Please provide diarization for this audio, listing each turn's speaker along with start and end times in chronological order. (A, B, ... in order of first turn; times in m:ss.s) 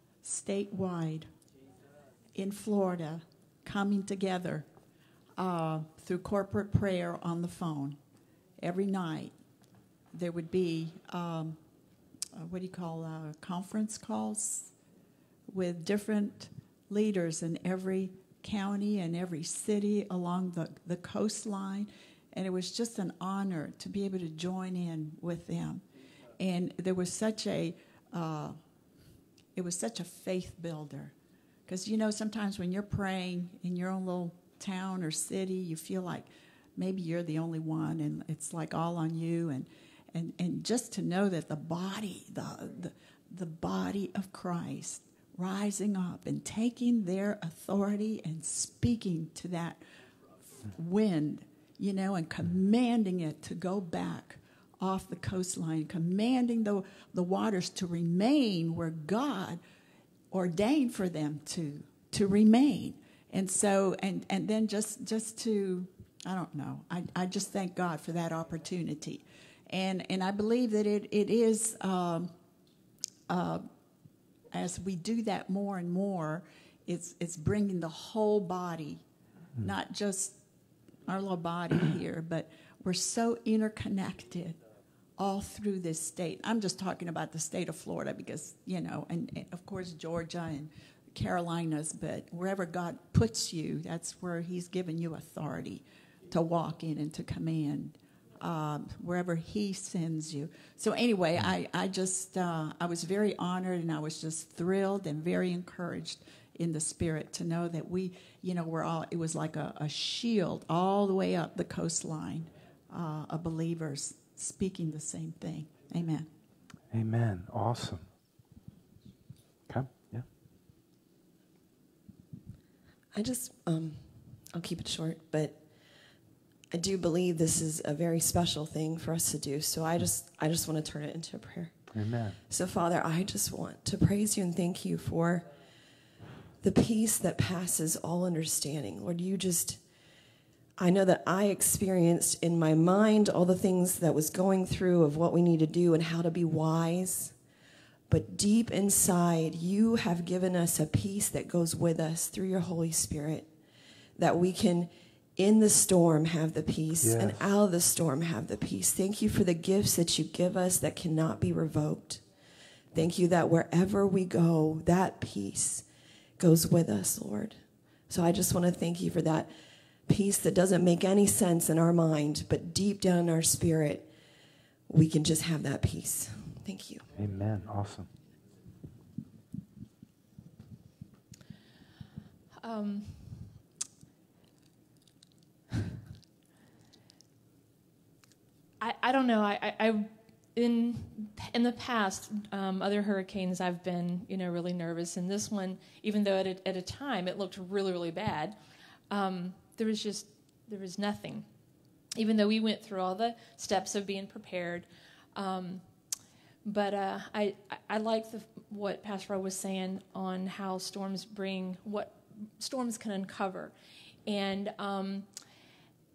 0:00.2-0:01.3 A
0:02.4-0:04.7 A
0:05.4-0:08.0 A
0:08.6-0:09.4 A
0:10.1-0:11.6 A
0:12.4-0:14.7 A
0:15.5-0:25.8 A
0:26.4-0:28.6 A
0:29.6-0:31.1 A
0:31.7-0:49.8 A
0:50.6-0:59.6 A
1:00.3-1:12.3 A
1:13.3-1:13.7 A
1:14.5-1:19.0 A
1:19.6-1:20.4 A
1:21.0-1:24.6 A
1:25.2-1:56.3 A
1:56.9-1:58.0 B
1:59.7-2:00.3 B
2:03.1-2:05.7 C
2:06.7-2:15.5 C
2:11.9-2:12.4 B
2:16.6-2:19.8 C
2:20.8-2:27.4 C
2:28.1-2:33.5 C
2:34.2-2:42.2 C
2:37.0-2:37.4 B
2:42.9-2:45.9 C
2:46.4-2:49.5 C
2:50.1-2:54.1 C
2:54.9-2:57.1 C
2:57.2-2:58.1 B
3:02.6-3:03.6 D
3:08.8-3:18.6 D
3:19.1-3:21.5 D
3:22.2-3:25.9 D
3:26.6-3:33.7 D
3:34.3-3:35.3 D